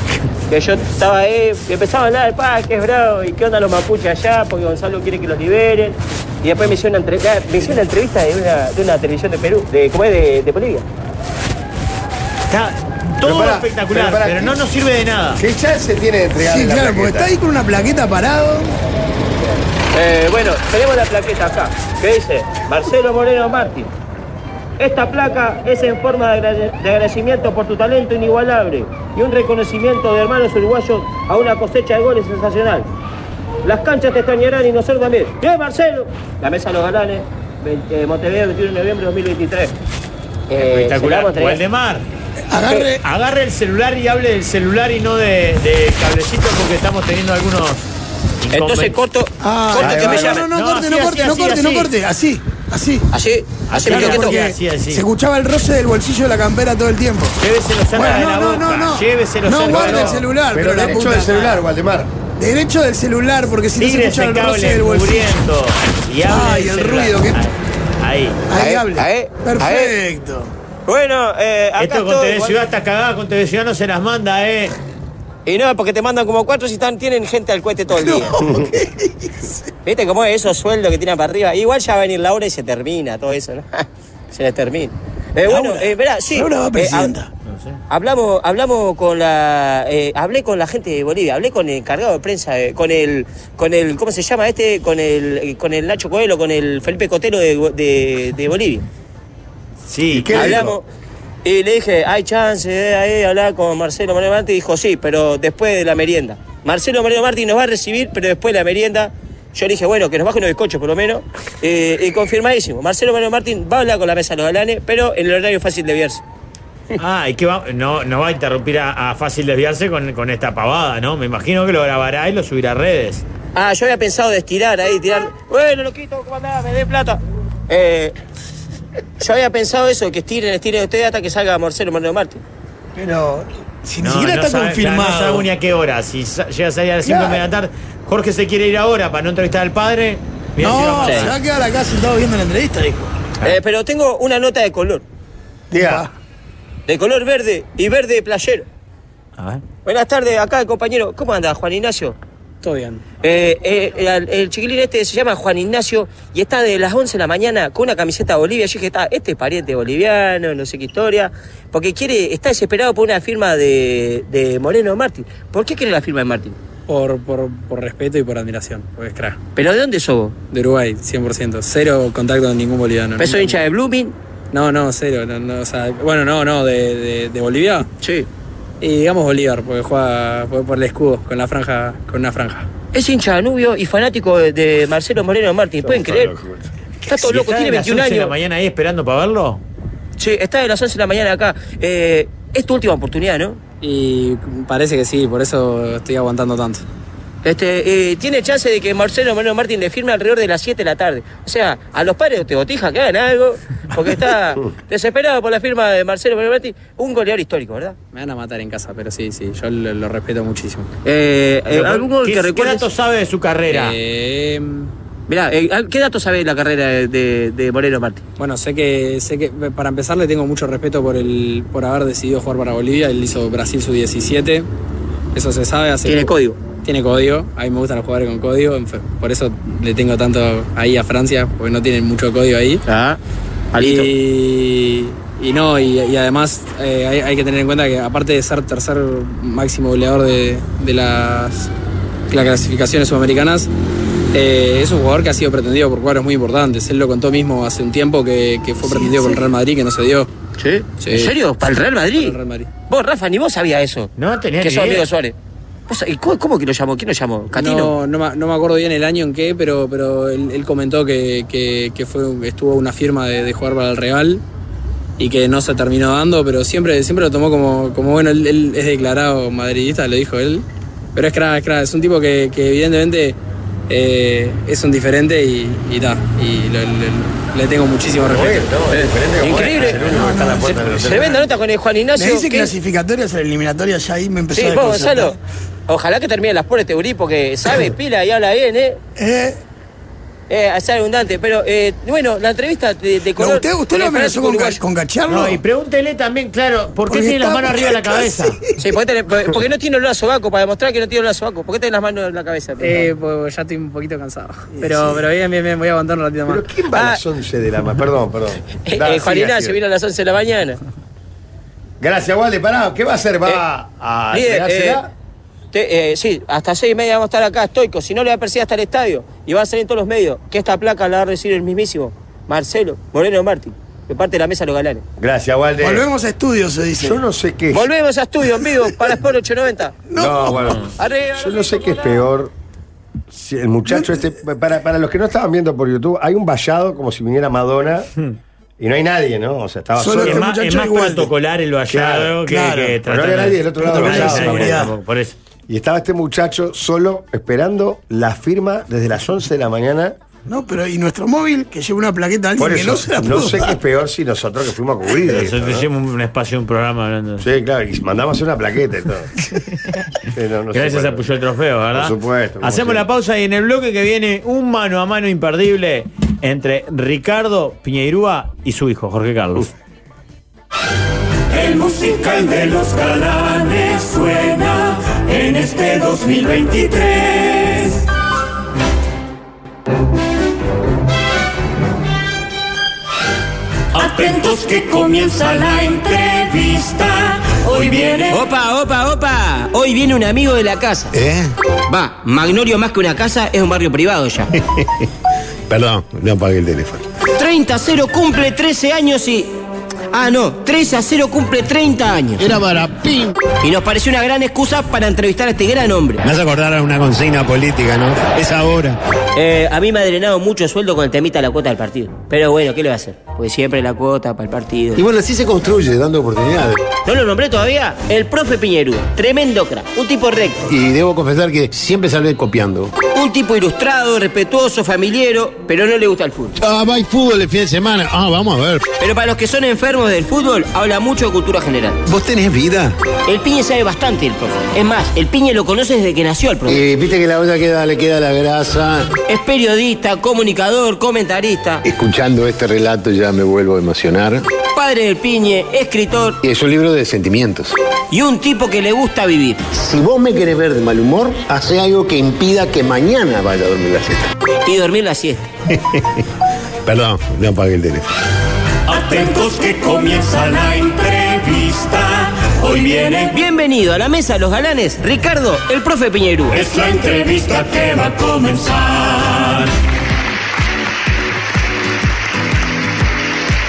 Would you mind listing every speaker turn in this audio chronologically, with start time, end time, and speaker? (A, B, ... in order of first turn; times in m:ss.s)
0:00.5-0:10.8 A
0:12.5-0:15.4 B
0:13.2-0:14.6 C
0:15.4-0:17.3 C
0:16.4-0:18.8 D
0:19.9-0:23.9 A
0:24.8-0:32.9 A
0:33.6-0:39.7 A
0:40.5-0:41.6 A
0:40.6-0:42.1 B
0:42.5-0:43.0 D
0:42.6-0:42.9 A
0:43.0-0:47.9 B
0:48.4-0:49.0 B
0:48.5-0:50.4 A
0:49.4-0:53.1 D
0:49.8-0:51.9 B
0:49.8-0:50.2 C
0:53.1-0:54.4 A
0:53.7-0:55.0 B
0:53.8-1:01.6 D
0:57.4-1:00.2 B
0:59.7-1:02.1 C
1:02.4-1:05.5 D
1:03.8-1:08.4 B
1:06.2-1:07.4 D
1:08.5-1:10.5 D
1:08.5-1:10.0 A
1:10.9-1:12.6 A
1:11.8-1:14.7 B
1:15.4-1:18.4 A
1:17.9-1:19.7 D
1:18.4-1:18.7 C
1:19.8-1:27.1 A
1:25.4-1:27.3 D
1:27.4-1:27.8 B
1:27.9-1:38.8 A
1:39.8-1:40.6 B
1:40.1-1:40.8 C
1:40.3-1:40.8 A
1:41.4-1:56.2 A
1:57.0-2:03.2 B
2:03.5-2:08.1 A
2:09.2-2:12.4 A
2:12.9-2:15.5 D
2:14.0-2:21.3 B
2:17.0-2:17.5 D
2:20.6-2:23.1 D
2:21.0-2:21.3 A
2:23.4-2:25.0 A
2:25.7-2:26.1 D
2:25.7-2:26.0 C
2:26.9-2:28.6 A
2:29.4-2:29.6 B
2:29.8-2:32.2 A
2:32.6-2:33.0 E
2:33.2-2:46.6 A
2:46.9-2:49.4 E
2:49.6-2:50.4 A
2:50.5-2:53.6 E
2:53.2-2:54.1 A
2:54.5-2:57.9 E
2:58.0-2:58.3 A
2:58.8-3:02.7 E
3:02.9-3:06.3 A
3:05.8-3:06.7 C
3:07.0-3:08.3 A
3:07.1-3:09.6 B
3:10.2-3:13.6 A
3:13.8-3:16.8 E
3:17.4-3:28.0 A
3:28.1-3:30.9 E
3:31.0-3:32.9 A
3:31.7-3:34.0 B
3:33.7-3:34.9 E
3:35.3-3:38.2 A
3:38.4-3:44.7 E
3:45.3-3:52.8 E
3:46.0-3:46.6 A
3:52.8-3:53.2 A
3:53.7-3:54.1 A
3:53.8-4:01.7 E
4:02.3-4:03.7 E
4:04.3-4:10.3 E
4:08.8-4:09.5 A
4:10.6-4:15.3 A
4:11.0-4:11.3 E
4:12.1-4:12.7 E
4:14.2-4:15.1 B
4:15.9-4:17.9 A
4:17.5-4:24.4 E
4:25.2-4:33.4 E
4:33.9-4:38.8 E
4:38.3-4:41.5 C
4:38.9-4:40.1 A
4:40.0-4:41.2 D
4:41.0-4:42.7 A
4:42.1-4:45.4 D
4:44.5-4:45.4 A
4:45.9-4:49.0 A
4:49.2-4:49.6 D
4:50.5-4:54.8 A
4:53.3-4:55.6 D
4:55.3-4:58.6 B
4:57.1-4:58.8 D
4:58.8-5:03.1 A
5:02.8-5:06.7 E
5:04.8-5:05.2 C
5:06.4-5:09.8 C
5:06.9-5:07.2 A
5:08.8-5:10.8 A
5:12.0-5:15.1 C
5:14.3-5:15.0 A
5:15.7-5:25.0 A
5:25.2-5:26.0 C
5:25.8-5:27.2 D
5:27.0-5:27.9 C
5:27.7-5:30.0 A
5:30.1-5:30.7 D
5:30.1-5:32.5 C
5:30.9-5:32.2 A
5:33.3-5:38.1 C
5:38.8-5:40.5 C
5:40.0-5:41.3 D
5:40.2-5:45.3 B
5:41.9-5:42.4 C
5:42.5-5:43.0 D
5:43.0-5:44.9 C
5:43.8-5:44.9 D
5:45.7-5:50.2 C
5:50.4-5:53.8 D
5:52.6-5:55.8 C
5:55.3-5:57.4 B
5:57.4-5:59.5 C
6:00.3-6:01.2 C
6:00.7-6:09.7 B
6:01.9-6:03.0 C
6:11.5-6:18.0 F
6:23.9-6:28.4 F
6:28.3-6:31.1 A
6:31.1-6:31.5 G
6:31.9-6:34.5 A
6:34.6-6:35.1 G
6:35.7-6:37.0 G
6:37.4-6:39.5 A
6:40.1-6:42.4 A
6:42.4-6:43.3 G
6:43.6-6:46.2 A
6:46.2-6:49.0 G
6:49.3-6:55.0 A
6:55.0-6:56.8 G
6:57.0-7:00.6 A
7:00.7-7:02.9 G
7:03.0-7:06.6 A
7:06.6-7:08.9 G
7:09.0-7:12.0 A
7:12.0-7:13.0 G
7:13.2-7:16.8 A
7:16.7-7:19.2 G
7:19.3-7:21.8 A
7:21.8-7:24.4 G
7:24.7-7:26.4 A
7:26.4-7:27.8 G
7:28.1-7:29.6 A
7:29.7-7:34.3 G
7:34.6-7:35.4 A
7:35.7-7:36.2 G
7:36.8-7:38.2 G
7:38.8-7:43.4 F
7:43.3-7:46.5 A
7:46.5-7:49.7 F